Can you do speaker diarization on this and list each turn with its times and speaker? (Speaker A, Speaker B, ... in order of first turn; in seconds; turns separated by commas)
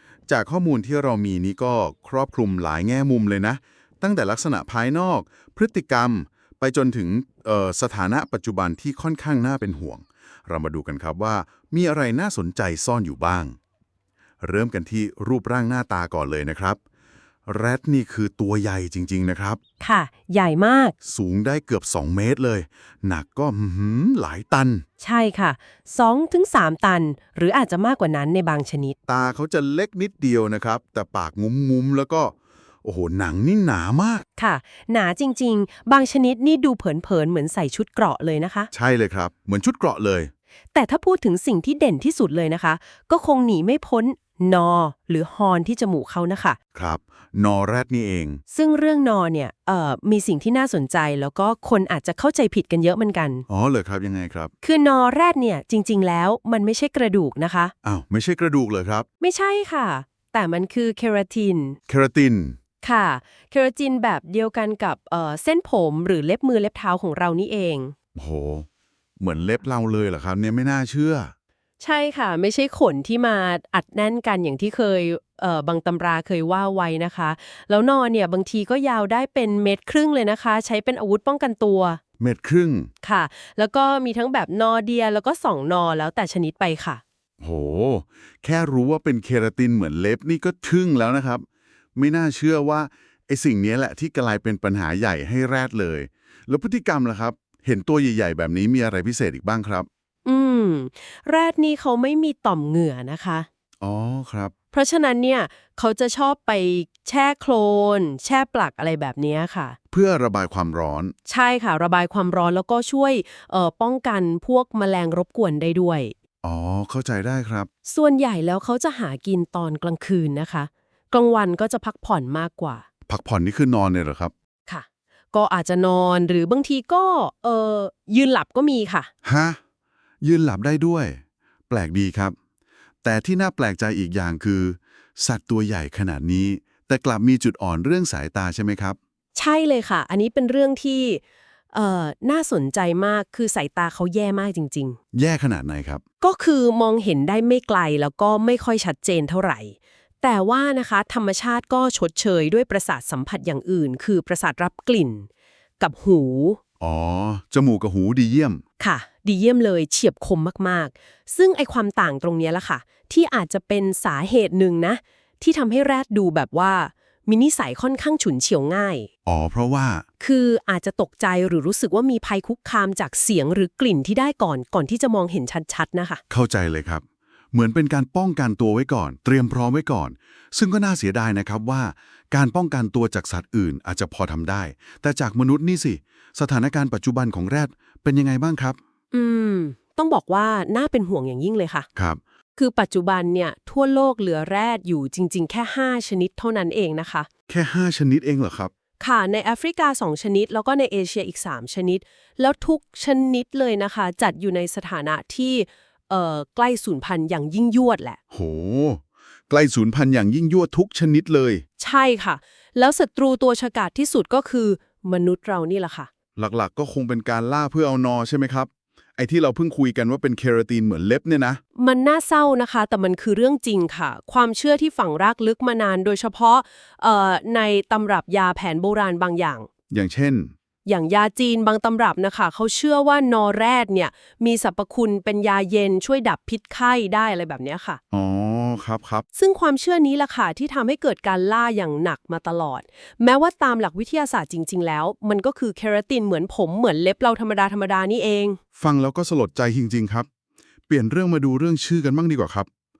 Speaker A: 0.3-13.6, Speaker A: 14.4-16.8, Speaker A: 17.5-19.6, Speaker B: 19.8-20.9, Speaker A: 21.0-24.8, Speaker B: 25.0-29.0, Speaker A: 29.1-34.2, Speaker B: 34.4-38.7, Speaker A: 38.7-40.3, Speaker B: 40.7-46.6, Speaker A: 46.7-48.4, Speaker B: 48.5-53.4, Speaker A: 53.5-54.5, Speaker B: 54.6-57.7, Speaker A: 57.8-59.0, Speaker B: 59.2-61.8, Speaker A: 61.9-62.6, Speaker B: 62.8-67.9, Speaker A: 68.1-68.7, Speaker A: 69.2-71.3, Speaker B: 71.8-82.0, Speaker A: 82.2-82.9, Speaker B: 83.0-87.0, Speaker A: 87.4-91.4, Speaker A: 92.0-99.9, Speaker B: 100.2-103.5, Speaker A: 103.8-104.5, Speaker B: 104.7-109.8, Speaker A: 109.9-111.1, Speaker B: 111.3-116.1, Speaker A: 116.4-117.7, Speaker B: 117.8-122.8, Speaker A: 123.1-124.3, Speaker B: 124.7-129.1, Speaker A: 129.2-129.6, Speaker A: 130.2-132.3, Speaker A: 133.0-139.0, Speaker B: 139.3-145.0, Speaker A: 145.1-146.0, Speaker B: 146.2-155.3, Speaker B: 155.8-156.6, Speaker A: 156.8-158.6, Speaker B: 158.8-169.1, Speaker A: 169.2-170.0, Speaker B: 170.2-176.2, Speaker A: 176.3-188.8, Speaker B: 189.1-191.9, Speaker B: 192.6-197.3, Speaker A: 197.5-198.7, Speaker B: 199.0-208.2, Speaker A: 208.3-211.6, Speaker B: 211.8-216.1, Speaker A: 216.4-221.6, Speaker B: 221.8-229.7, Speaker A: 229.9-230.5, Speaker B: 230.8-238.0, Speaker A: 238.1-239.2, Speaker B: 239.3-248.6, Speaker A: 248.8-250.3, Speaker A: 250.9-252.7